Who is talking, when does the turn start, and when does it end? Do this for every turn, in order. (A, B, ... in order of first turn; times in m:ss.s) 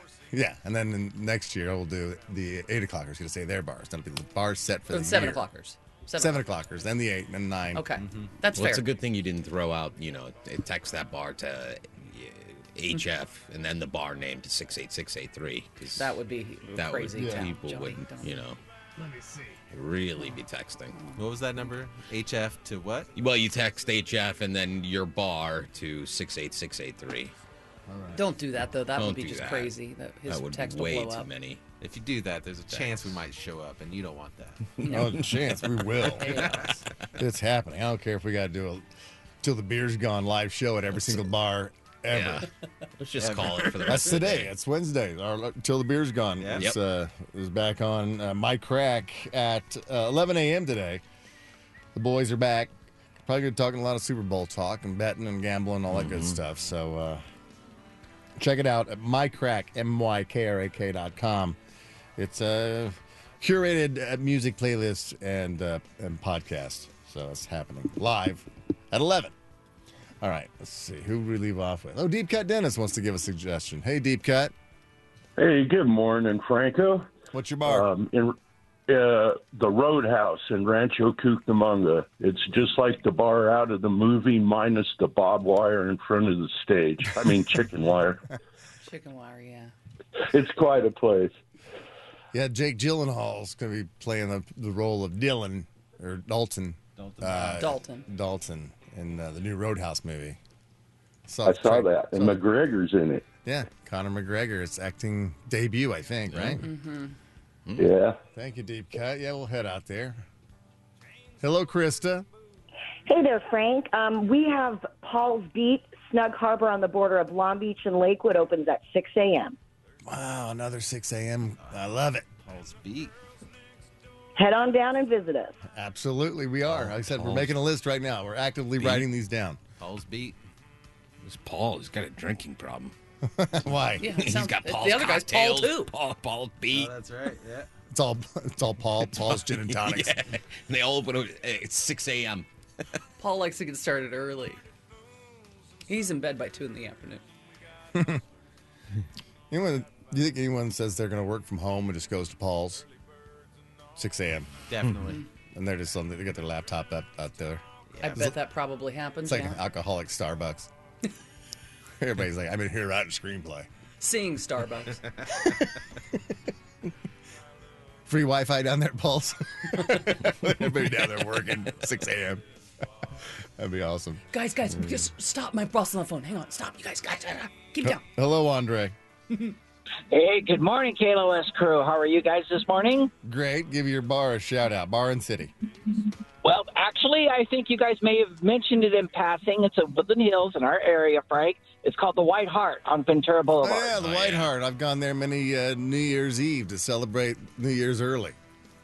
0:00.3-0:05.4 A
0:04.9-0:06.4 B
0:06.2-0:07.8 A
0:07.7-0:08.8 B
0:08.0-0:08.3 C
0:08.5-0:16.2 D
0:16.0-0:18.3 B
0:16.7-0:18.6 D
0:17.1-0:17.5 A
0:19.0-0:19.5 A
0:19.7-0:21.0 D
0:21.2-0:23.1 C
0:23.2-0:27.3 D
0:27.9-0:28.2 A
0:28.2-0:31.3 B
0:29.0-0:29.7 D
0:30.3-0:31.6 D
0:31.8-0:34.7 C
0:32.7-0:33.0 D
0:34.8-0:35.2 B
0:34.8-0:38.8 A
0:36.2-0:36.7 C
0:36.2-0:36.8 B
0:39.4-0:42.5 A
0:42.1-0:42.5 D
0:43.0-0:44.5 D
0:43.2-0:44.0 C
0:43.8-0:51.0 A
0:46.4-0:46.7 C
0:51.9-0:52.7 A
0:53.2-0:57.2 A
0:55.9-0:56.4 D
0:58.4-1:01.6 A
1:02.2-1:09.3 A
1:10.2-1:14.5 A
1:15.4-1:17.1 E
1:17.3-1:17.9 A
1:17.6-1:18.4 E
1:18.9-1:28.2 E
1:28.8-1:29.7 B
1:30.3-1:31.3 E
1:32.3-1:40.4 A
1:37.0-1:37.7 C
1:37.4-1:38.0 B
1:41.3-1:42.4 A
1:41.4-1:43.2 E
1:43.4-1:46.7 A
1:46.3-1:46.6 D
1:46.6-1:47.2 B
1:47.7-1:47.9 D
1:47.8-1:48.2 E
1:48.3-1:50.2 A
1:51.4-1:52.2 A
1:53.1-1:59.6 F
2:00.0-2:02.3 A
2:02.4-2:03.1 C
2:04.4-2:05.6 F
2:05.7-2:09.6 A
2:06.7-2:07.5 D
2:09.8-2:10.4 C
2:11.2-2:12.9 D
2:13.3-2:14.1 A
2:14.0-2:15.9 B
2:14.1-2:16.9 D
2:16.7-2:17.7 C
2:17.9-2:20.1 A
2:19.1-2:22.4 D
2:23.2-2:24.6 B
2:25.9-2:27.2 B
2:27.9-2:28.2 A
2:29.5-2:32.8 A
2:34.0-2:34.5 A
2:34.7-2:35.2 C
2:35.5-2:38.4 A
2:37.9-2:38.3 C
2:38.0-2:39.6 B
2:39.2-2:40.7 A
2:42.0-2:43.7 A
2:44.0-2:45.0 B
2:48.0-2:52.4 A
2:53.6-2:54.2 A
2:54.3-2:58.0 B
2:57.8-2:58.9 A
3:00.1-3:03.1 G
3:03.2-3:05.5 A
3:06.4-3:13.9 G
3:13.6-3:18.4 A
3:14.0-3:14.5 D